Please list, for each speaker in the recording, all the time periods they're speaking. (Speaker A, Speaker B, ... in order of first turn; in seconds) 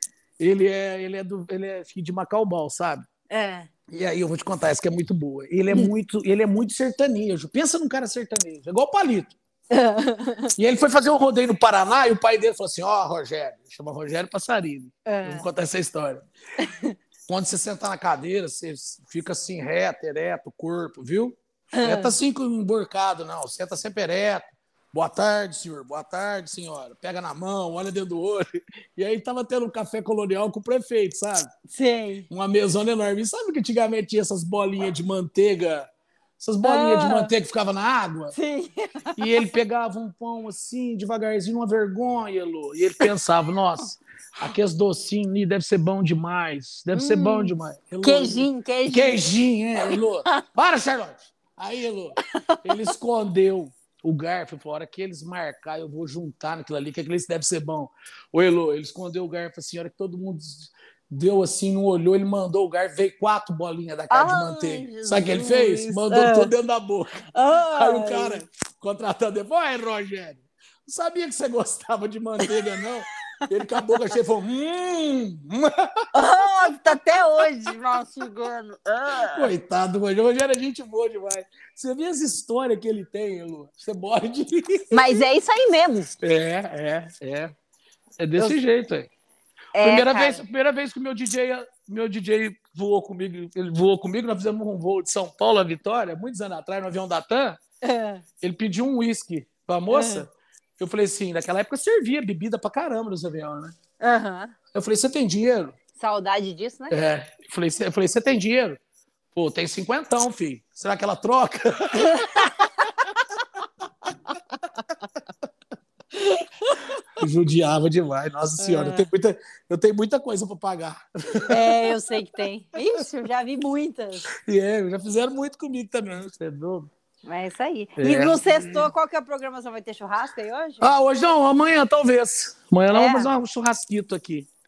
Speaker A: 0.4-3.1, 3.9-9.4, 10.6-16.2, 17.3-31.5, 32.3-38.3, 39.2-76.1, 79.3-85.2, 86.2-87.5, 88.2-89.1, 89.8-97.6, 98.4-103.7, 104.7-105.8, 106.9-108.8, 109.3-113.1, 117.2-122.0, 124.3-126.9, 128.0-128.9, 130.8-134.5
Speaker B: 3.3-3.7, 9.7-10.5, 15.1-15.5, 16.6-17.0, 21.7-22.2, 31.7-32.3, 36.6-37.3, 38.3-39.4, 46.9-49.2, 49.8-50.4, 52.3-52.9, 64.1-66.5, 67.3-68.5, 72.5-72.8, 73.7-74.0, 76.1-79.5, 84.9-86.1, 89.8-90.4, 97.8-98.2, 99.9-100.3, 104.0-104.5, 106.0-107.0, 112.0-113.1, 116.1-117.2, 118.6-119.1, 121.5-124.3, 127.3-130.9, 132.9-133.3